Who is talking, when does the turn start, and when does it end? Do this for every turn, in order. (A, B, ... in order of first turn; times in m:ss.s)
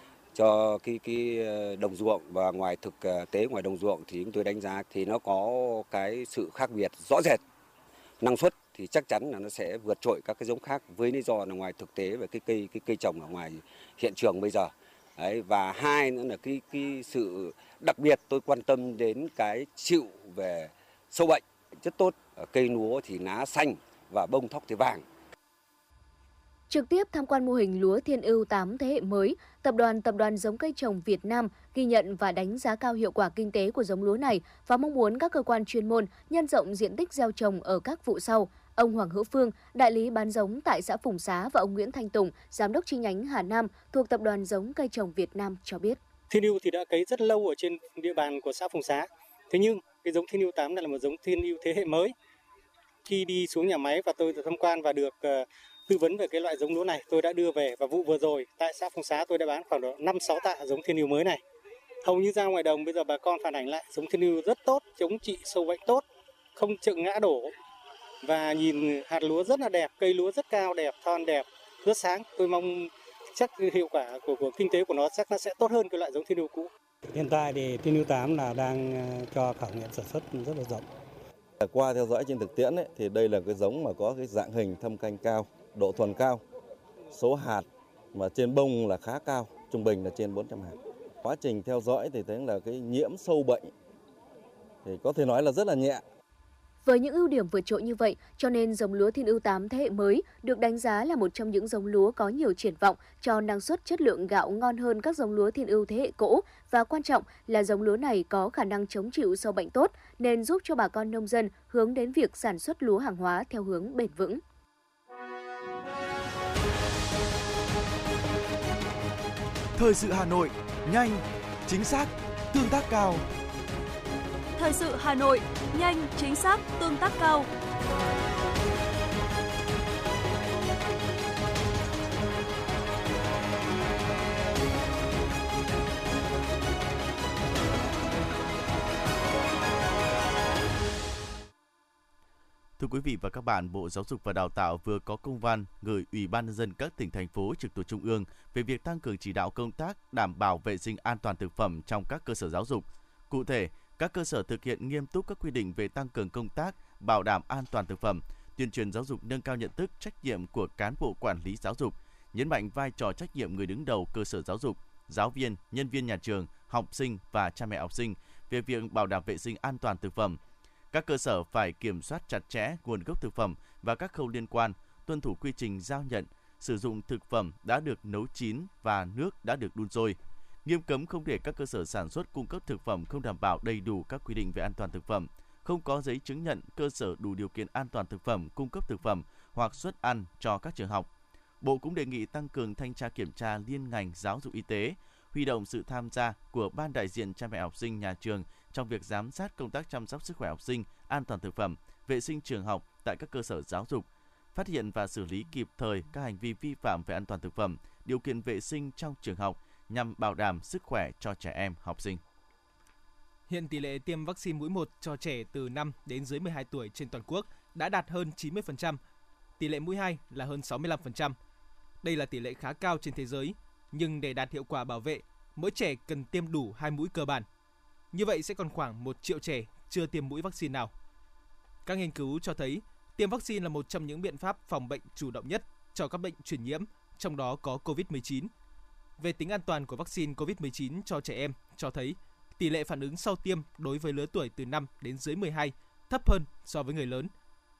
0:00.3-0:07.4 A
0:08.2-0:25.0 A
0:26.7-0:46.0 B
0:46.3-0:52.1 C
0:53.0-1:01.4 C
1:02.0-1:07.5 C
1:08.2-1:16.7 C
1:17.2-1:20.8 D
1:21.6-1:26.4 E
1:27.1-1:33.7 E
1:34.8-1:36.0 E
1:36.8-1:54.4 B
1:59.8-2:03.1 F
2:04.6-2:07.5 G
2:22.8-2:50.4 F
2:50.9-3:11.1 F
3:11.6-3:32.2 F
3:33.5-3:39.0 H
3:39.6-3:41.4 H
3:42.0-3:47.5 H
3:48.1-3:50.9 H
3:51.8-3:58.5 H
3:59.2-4:07.3 H